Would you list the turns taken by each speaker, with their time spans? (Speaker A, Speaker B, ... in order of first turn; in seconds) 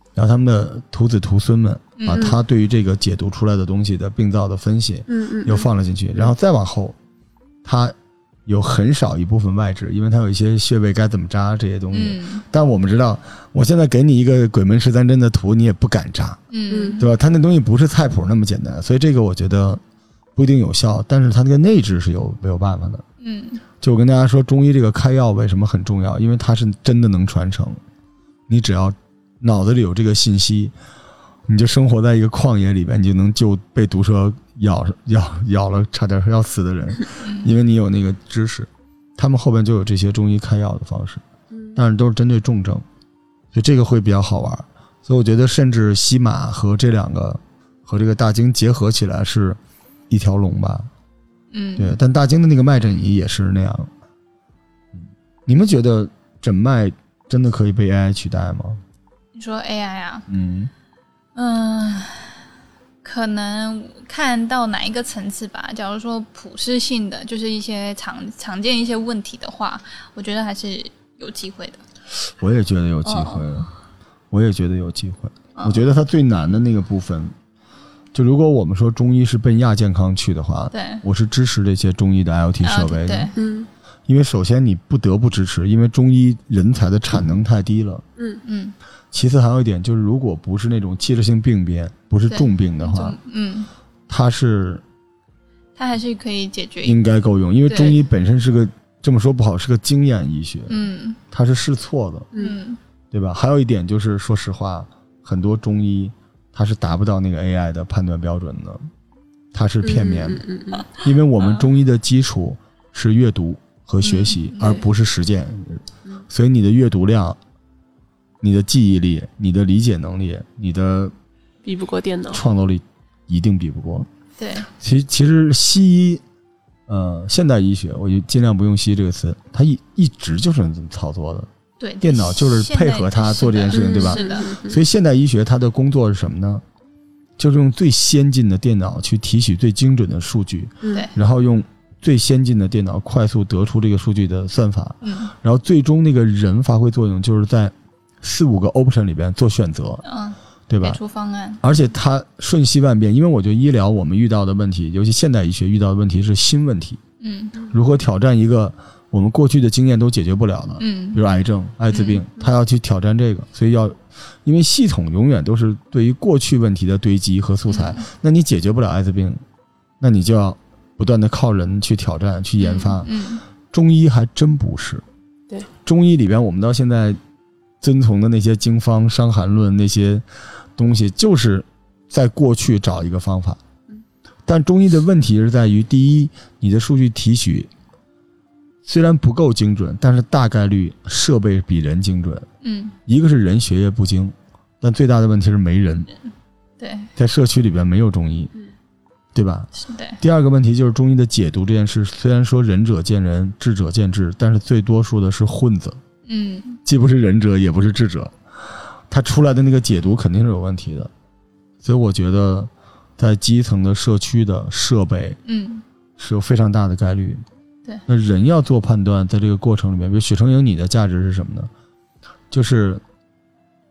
Speaker A: 0.1-7.0, 7.6-8.0, 8.5-16.4, 17.0-19.8, 20.4-23.0, 23.8-27.8, 28.5-30.7, 31.5-41.2, 41.8-42.9, 43.5-49.6, 50.1-50.9, 51.8-53.9, 55.0-58.8, 60.3-60.7, 72.4-73.7, 74.3-77.3, 78.1-83.3, 84.1-88.0, 89.1-93.2, 94.1-94.8, 96.8-100.8, 101.3-102.3, 103.1-108.9, 109.5-117.4, 118.4-121.1, 122.3-124.1, 124.8-126.2, 126.9-131.5, 132.0-136.6, 137.4-150.0, 150.7-151.0, 151.6-157.0, 157.7-169.4, 170.0-173.1, 173.7-175.0, 175.8-177.2, 177.8-180.2, 180.8-183.6, 184.5-187.7, 188.8-192.5, 193.1-196.1, 197.2-198.5, 199.3-206.0, 206.8-208.3, 209.1-211.1, 211.8-215.4, 216.2-217.4, 218.1-221.7, 222.5-223.0
Speaker B: 2.0-2.4, 11.9-12.4, 16.5-17.1, 23.2-23.6, 37.2-37.5, 51.5-52.0, 59.4-60.3, 61.4-62.4, 63.0-71.8, 73.0-73.5, 75.5-75.8, 80.7-81.0, 82.6-83.3, 88.5-88.8, 92.3-93.7, 95.8-97.0, 97.7-98.0, 100.7-101.2, 102.4-102.8, 111.4-111.7, 114.0-114.8, 124.4-124.7, 131.8-134.5, 140.9-141.1, 145.0-145.3, 150.0-151.6, 157.2-157.6, 160.8-161.2, 161.9-162.2, 167.7-168.0, 172.6-173.4, 192.6-193.0, 196.8-197.1, 199.8-200.2, 206.3-206.8, 215.5-215.8
Speaker C: 5.1-5.7, 16.7-17.0, 83.4-83.7, 109.8-110.9, 121.6-122.4, 133.7-134.8